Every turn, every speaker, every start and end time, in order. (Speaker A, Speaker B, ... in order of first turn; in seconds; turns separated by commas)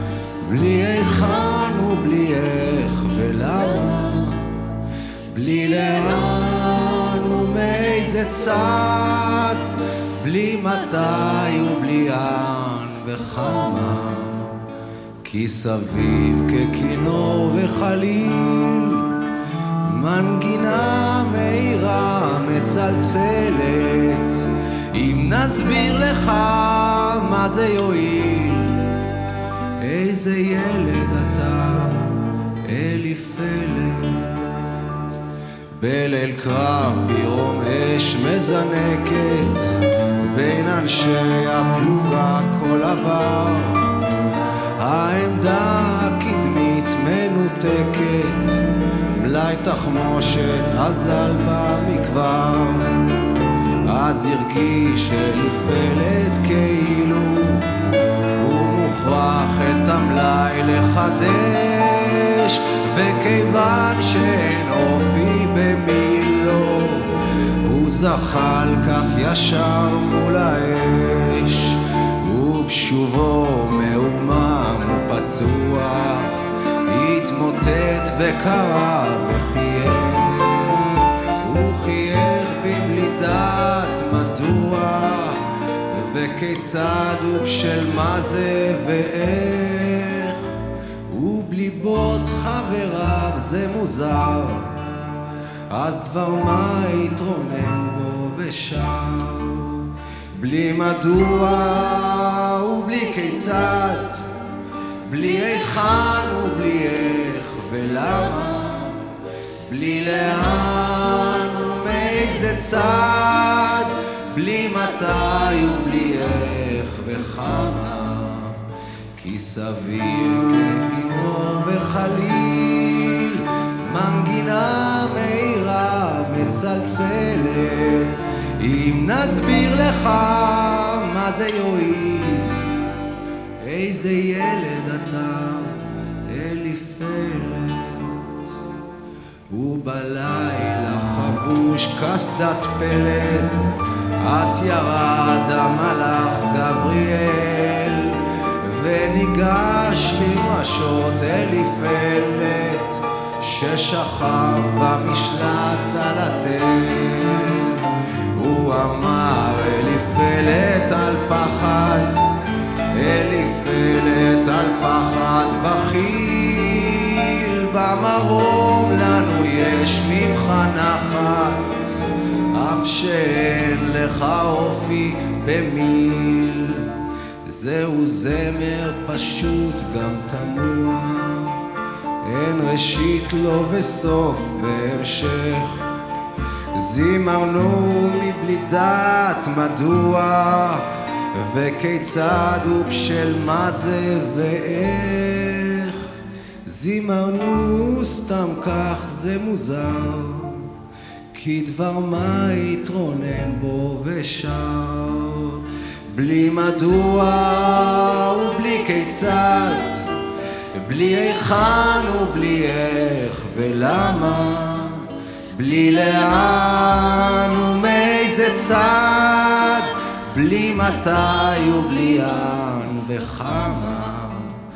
Speaker A: 0.4-4.5, Speaker A: 5.3-14.6, Speaker A: 15.2-19.1, Speaker A: 19.9-24.4, Speaker A: 24.9-28.9, Speaker A: 29.8-34.3, Speaker A: 35.8-43.9, Speaker A: 44.8-48.6, Speaker A: 49.1-53.0, Speaker A: 53.9-57.7, Speaker A: 58.4-80.8, Speaker A: 81.4-90.4, Speaker A: 91.1-94.8, Speaker A: 95.7-99.9, Speaker A: 100.4-104.2, Speaker A: 105.1-109.1, Speaker A: 109.7-118.6, Speaker A: 119.2-132.8, Speaker A: 133.6-138.5, Speaker A: 139.5-143.7, Speaker A: 144.2-157.8, Speaker A: 158.4-162.2, Speaker A: 162.9-172.0, Speaker A: 172.6-176.9, Speaker A: 177.5-181.6, Speaker A: 182.2-185.9, Speaker A: 186.8-196.0, Speaker A: 196.7-200.7, Speaker A: 201.3-210.1, Speaker A: 210.8-224.6